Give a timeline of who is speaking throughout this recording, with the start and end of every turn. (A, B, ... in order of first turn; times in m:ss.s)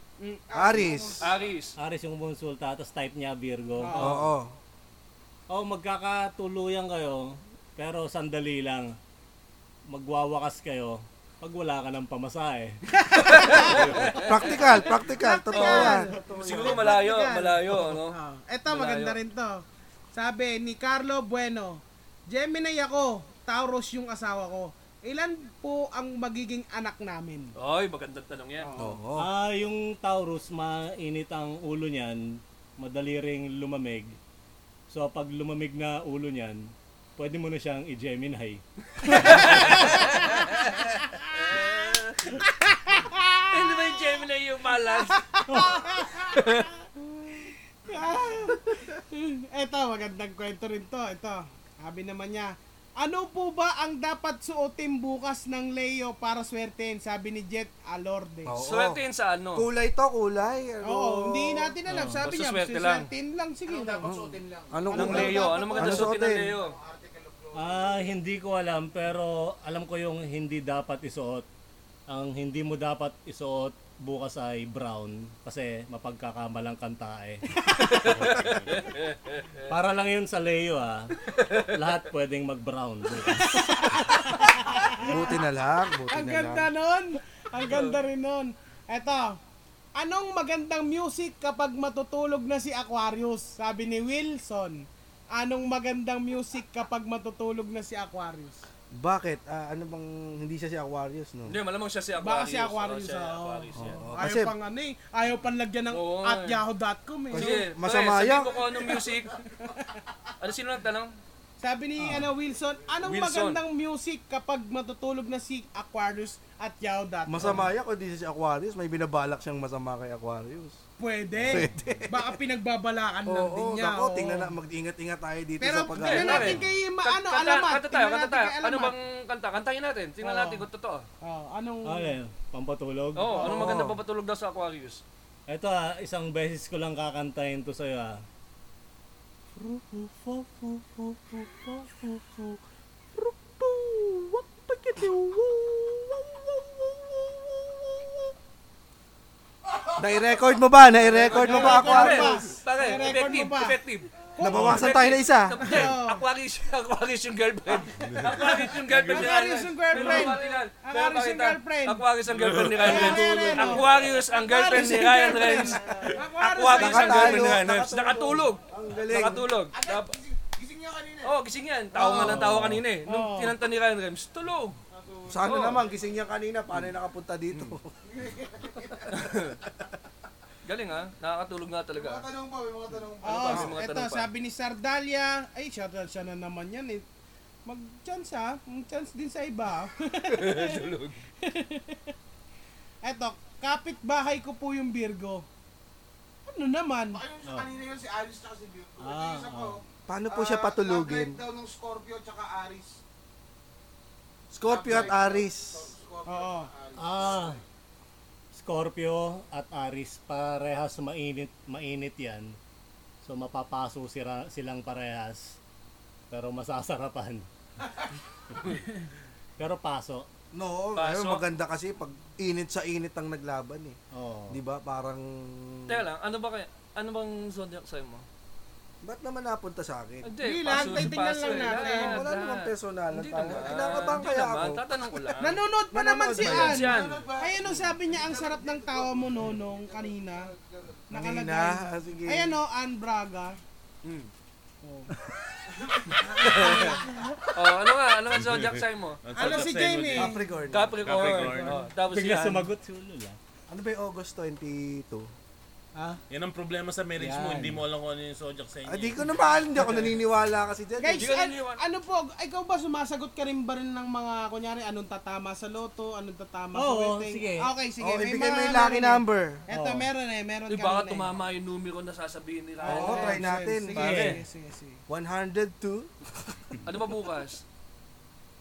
0:00.2-0:01.0 A
0:00.5-0:01.5 B
0:00.5-0:01.3 C
0:01.2-0:01.8 D
0:01.8-0:04.2 E
0:03.8-0:04.2 A
0:04.0-0:04.5 C
0:05.5-0:09.0 E
0:09.9-0:13.8 E
0:13.0-0:14.3 A
0:13.2-0:14.8 D
0:13.8-0:16.9 C
0:15.1-0:19.6 A
0:15.5-0:18.2 D
0:18.7-0:19.2 D
0:20.1-0:27.5 A
0:27.6-0:28.7 D
0:28.6-0:29.0 A
0:28.8-0:29.3 C
0:29.2-0:34.2 E
0:34.9-0:40.3 E
0:39.1-0:42.4 D
0:42.4-0:44.1 A
0:43.5-0:45.2 D
0:44.9-0:46.5 A
0:45.5-0:46.0 E
0:46.3-0:46.7 D
0:47.3-0:58.6 A
0:58.5-0:59.0 C
0:58.6-0:59.7 D
0:59.6-1:01.8 C
1:00.8-1:04.1 A
1:01.9-1:02.2 E
1:02.2-1:03.1 D
1:03.7-1:08.1 B
1:04.0-1:06.6 C
1:04.9-1:06.8 D
1:05.0-1:05.7 A
1:07.6-1:11.5 E
1:12.1-1:18.3 E
1:17.8-1:19.7 D
1:19.7-1:24.2 E
1:21.3-1:21.8 D
1:23.4-1:25.3 A
1:25.0-1:26.7 C
1:26.1-1:29.4 A
1:27.6-1:28.0 D
1:30.0-1:38.6 A
1:38.9-1:41.6 C
1:41.5-1:44.0 D
1:42.2-1:47.5 A
1:43.8-1:44.5 C
1:45.9-1:46.6 D
1:47.3-1:48.7 C
1:47.3-1:49.4 D
1:49.6-1:49.9 A
1:50.4-1:51.2 D
1:51.6-1:57.7 A
1:52.0-1:52.3 E
1:53.0-1:53.6 D
1:57.3-2:00.8 C
2:01.0-2:04.5 A
2:01.4-2:01.8 E
2:01.5-2:02.4 C
2:03.3-2:06.6 C
2:05.6-2:08.9 A
2:06.0-2:11.1 D
2:10.2-2:10.6 A
2:11.2-2:12.2 A
2:11.8-2:13.8 E
2:13.2-2:15.0 D
2:13.4-2:14.0 C
2:15.5-2:18.2 E
2:19.6-2:22.6 E
2:23.2-2:28.3 E
2:29.7-2:31.9 B
2:30.0-2:32.4 C
2:31.1-2:50.2 D
2:31.3-2:33.8 A
2:34.4-2:34.9 A
2:34.4-2:35.8 C
2:35.6-2:36.2 A
2:38.0-2:39.2 F
2:38.4-2:42.0 A
2:42.3-2:43.1 F
2:42.8-2:47.6 A
2:44.7-2:45.4 C
2:45.8-2:46.1 B
2:46.7-2:49.5 C
2:49.7-2:51.3 B
2:51.2-2:54.8 D
2:52.0-2:52.4 A
2:52.2-2:52.8 E
2:53.1-2:53.6 A
2:54.9-2:56.1 B
2:55.3-2:57.9 C
2:55.4-2:55.8 D
2:58.0-2:59.3 B
2:59.1-2:59.6 D
3:00.6-3:02.3 D
3:02.0-3:03.7 B
3:03.2-3:07.0 A
3:03.3-3:04.3 D
3:07.7-3:10.8 A
3:10.3-3:11.2 D
3:11.4-3:12.1 A
3:13.0-3:15.5 A
3:16.5-3:17.2 A
3:17.1-3:23.0 B
3:17.5-3:17.7 E
3:19.0-3:19.8 E
3:20.1-3:21.4 C
3:24.5-3:25.9 C
3:24.7-3:27.6 B
3:26.3-3:26.7 A
3:27.0-3:27.6 E
3:28.5-3:32.6 E
3:33.2-3:35.6 E
3:36.3-3:37.5 E
3:39.6-3:40.3 E
3:40.5-3:44.0 C
3:41.0-3:41.4 D
3:44.1-3:44.6 E
3:44.5-3:46.1 C
3:45.9-3:48.2 D
3:49.0-3:57.0 C
3:50.2-3:55.6 D
3:50.4-3:52.2 A
3:55.4-4:00.5 A
3:56.4-3:57.2 D
3:56.7-4:01.1 B
4:01.1-4:02.6 C
4:01.1-4:03.6 A
4:04.0-4:04.3 D
4:04.8-4:05.1 A
4:06.4-4:09.2 D
4:06.4-4:06.9 C
4:06.4-4:07.2 A
4:08.3-4:10.3 F
4:09.3-4:10.4 A
4:10.2-4:11.2 C
4:10.7-4:12.7 D
4:11.0-4:11.8 F
4:11.4-4:11.8 A
4:12.0-4:13.4 E
4:13.7-4:15.3 C
4:16.3-4:19.4 F
4:17.2-4:17.8 E
4:18.9-4:21.3 C
4:19.8-4:20.1 E
4:21.0-4:31.3 A
4:21.2-4:21.8 D
4:26.7-4:27.7 E
4:28.0-4:29.6 C
4:29.7-4:30.1 E
4:30.7-4:33.4 D
4:32.8-4:35.0 A
4:32.8-4:34.3 C
4:34.0-4:34.4 E
4:34.0-4:34.3 D
4:35.1-4:36.8 C
4:36.8-4:37.6 D